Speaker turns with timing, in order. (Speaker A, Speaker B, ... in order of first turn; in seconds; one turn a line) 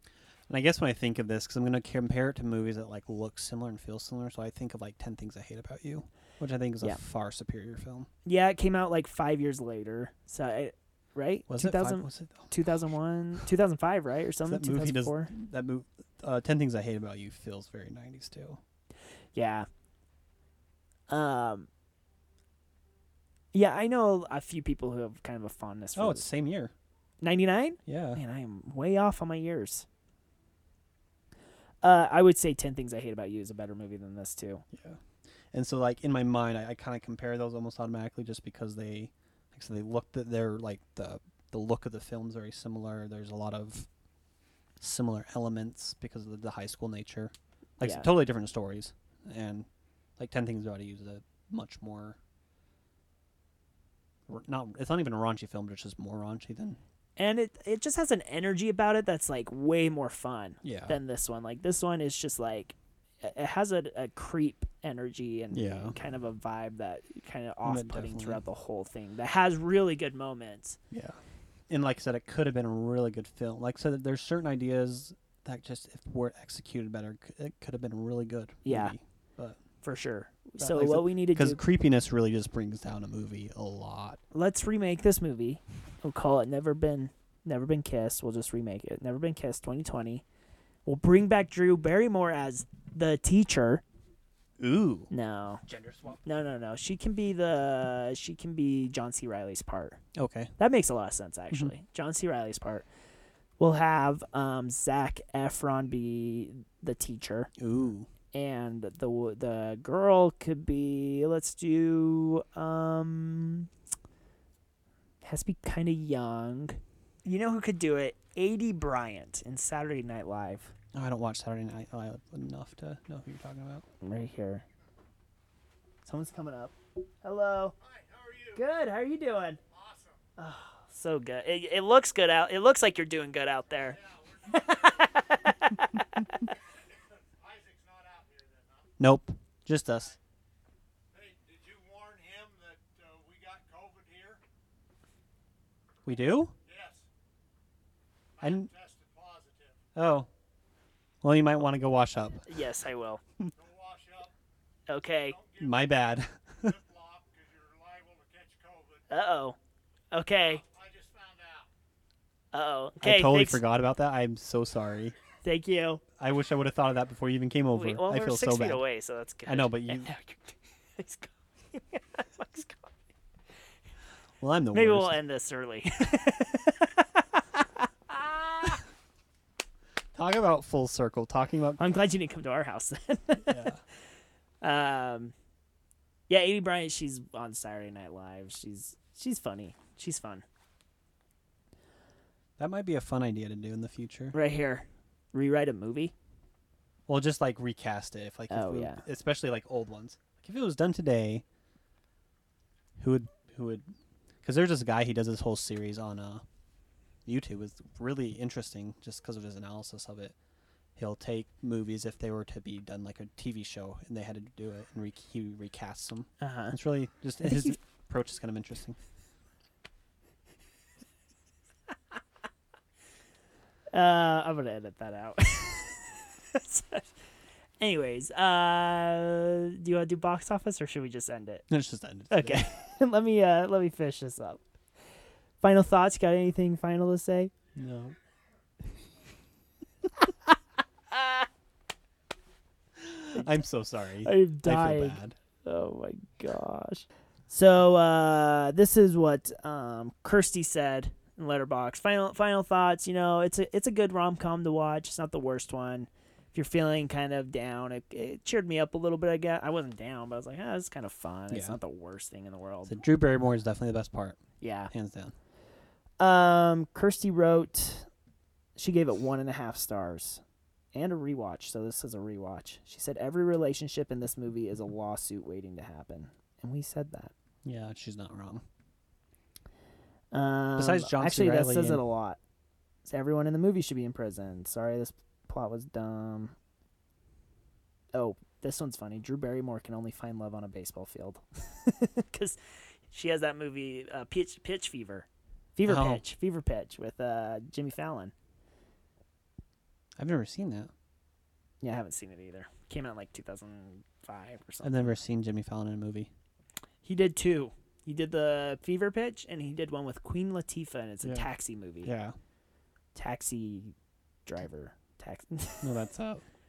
Speaker A: 0.5-8.1
Speaker B: 8.2-15.3
Speaker A: 11.5-12.7
Speaker A: 14.5-18.6
Speaker B: 19.3-19.7
Speaker B: 21.1-21.7
Speaker B: 23.5-26.3
Speaker A: 26.0-26.7
Speaker B: 27.2-29.9
Speaker A: 27.9-28.2
Speaker B: 31.8-34.6
Speaker A: 34.7-35.0
Speaker A: 35.5-43.9
Speaker A: 44.8-49.7
Speaker B: 47.8-48.1
Speaker A: 50.2-52.2
Speaker A: 54.3-56.8
Speaker B: 57.2-70.8
Speaker A: 60.6-61.0
Speaker A: 65.5-66.0
Speaker A: 67.6-68.4
Speaker A: 70.9-71.2
Speaker A: 71.7-79.6
Speaker B: 78.7-79.0
Speaker B: 79.8-81.6
Speaker A: 80.6-84.2
Speaker B: 84.3-90.2
Speaker B: 90.8-93.8
Speaker A: 94.6-95.1
Speaker B: 95.1-95.6
Speaker A: 95.7-96.2
Speaker B: 96.2-100.0
Speaker A: 100.2-100.5
Speaker B: 100.6-102.9
Speaker B: 103.6-107.5
Speaker A: 107.6-108.1
Speaker B: 108.3-113.7
Speaker B: 115.2-120.7
Speaker A: 120.9-123.8
Speaker B: 124.0-124.7
Speaker B: 126.0-127.8
Speaker C: 127.8-128.6
Speaker B: 128.6-129.6
Speaker C: 129.7-130.2
Speaker B: 130.4-136.5
Speaker C: 133.9-135.2
Speaker C: 136.7-138.9
Speaker A: 139.0-140.2
Speaker C: 141.1-144.4
Speaker A: 146.1-146.6
Speaker C: 146.7-147.1
Speaker C: 148.4-149.8
Speaker A: 148.4-148.7
Speaker A: 149.9-150.3
Speaker A: 151.2-152.4
Speaker B: 152.5-153.2
Speaker C: 153.5-154.3
Speaker B: 154.9-155.4
Speaker C: 155.1-155.8
Speaker A: 155.6-156.8
Speaker C: 156.6-159.1
Speaker B: 159.1-159.6
Speaker B: 160.1-160.6
Speaker C: 160.5-161.7
Speaker B: 162.5-163.6
Speaker A: 163.0-165.2
Speaker B: 165.4-166.0
Speaker A: 166.2-168.8
Speaker B: 167.7-172.9
Speaker A: 169.5-170.1
Speaker A: 174.4-175.2
Speaker B: 174.7-178.8
Speaker A: 180.1-182.0
Speaker B: 181.8-183.7
Speaker A: 183.5-183.8
Speaker B: 184.6-185.3
Speaker B: 186.3-190.4
Speaker A: 192.6-194.3
Speaker B: 194.3-196.1
Speaker A: 197.1-201.4
Speaker B: 198.5-199.0
Speaker A: 203.0-203.9
Speaker A: 204.4-206.4
Speaker A: 207.3-210.3
Speaker A: 211.0-219.0
Speaker B: 216.4-216.8
Speaker B: 217.4-217.8
Speaker B: 223.9-227.1
Speaker B: 227.8-231.7
Speaker A: 231.7-232.7
Speaker B: 232.3-234.7
Speaker B: 235.6-237.5
Speaker A: 237.8-238.2
Speaker A: 243.0-245.4
Speaker B: 244.2-263.0
Speaker A: 261.5-261.8
Speaker A: 262.9-264.4
Speaker B: 264.6-264.9
Speaker A: 264.9-265.3
Speaker B: 266.2-268.1
Speaker B: 268.8-270.4
Speaker B: 270.9-277.3
Speaker A: 277.6-278.6
Speaker B: 280.3-282.4
Speaker A: 280.8-282.0
Speaker B: 283.1-286.6
Speaker B: 288.1-292.6
Speaker B: 293.1-298.3
Speaker A: 295.9-296.2
Speaker A: 300.2-300.9
Speaker B: 301.8-305.1
Speaker A: 304.8-306.3
Speaker B: 307.0-312.1
Speaker A: 311.2-311.5
Speaker A: 312.0-312.4
Speaker B: 313.1-313.9
Speaker B: 314.5-316.0
Speaker A: 315.8-316.4